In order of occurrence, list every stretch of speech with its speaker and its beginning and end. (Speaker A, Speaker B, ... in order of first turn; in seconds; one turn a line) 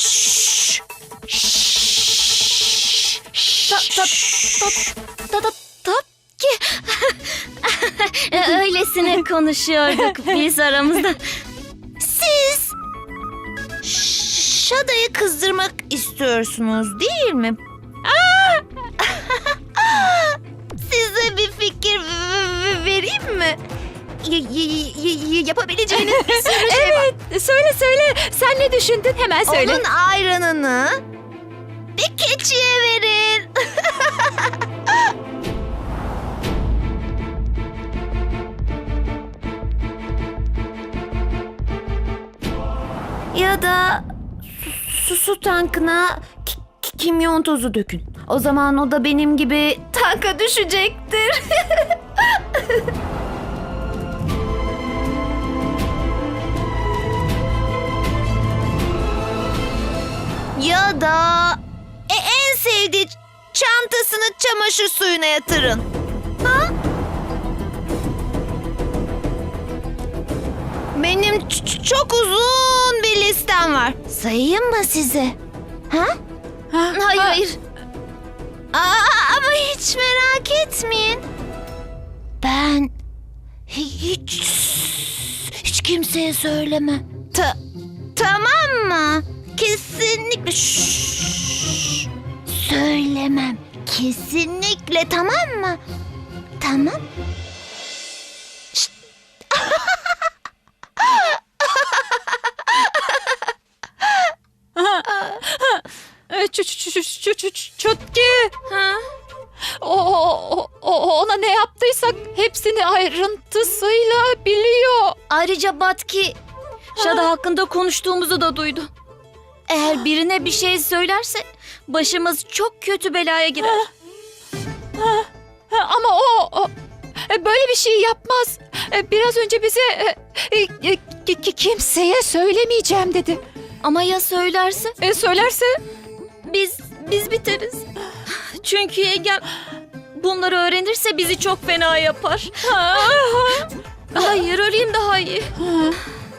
Speaker A: 3.9-4.9
Speaker B: 5.3-7.1
Speaker A: 8.2-9.4
Speaker B: 9.4-10.1
Speaker A: 10.0-11.2
Speaker C: 10.1-10.4
Speaker A: 12.0-12.7
Speaker A: 13.8-17.6
Speaker C: 18.1-18.6
Speaker A: 19.0-23.6
Speaker A: 24.2-27.1
Speaker C: 25.9-29.8
Speaker A: 29.5-31.0
Speaker A: 32.0-34.3
Speaker A: 43.3-51.9
Speaker A: 60.6-65.9
Speaker A: 66.4-66.7
Speaker A: 70.9-75.4
Speaker A: 75.9-76.2
Speaker C: 76.7-77.4
Speaker A: 76.9-77.6
Speaker A: 78.7-81.2
Speaker A: 82.4-82.9
Speaker A: 83.7-87.6
Speaker A: 88.2-91.9
Speaker A: 92.5-95.8
Speaker A: 96.6-97.0
Speaker A: 99.6-99.9
Speaker C: 104.8-108.5
Speaker B: 108.7-109.0
Speaker C: 109.8-115.2
Speaker B: 115.3-116.4
Speaker C: 117.0-117.3
Speaker B: 117.1-118.9
Speaker B: 120.2-123.9
Speaker C: 125.0-126.7
Speaker C: 127.3-133.4
Speaker B: 133.8-135.0
Speaker C: 135.0-135.8
Speaker B: 136.4-139.5
Speaker B: 140.2-142.7
Speaker C: 142.6-144.4
Speaker B: 144.2-145.5
Speaker C: 145.6-146.0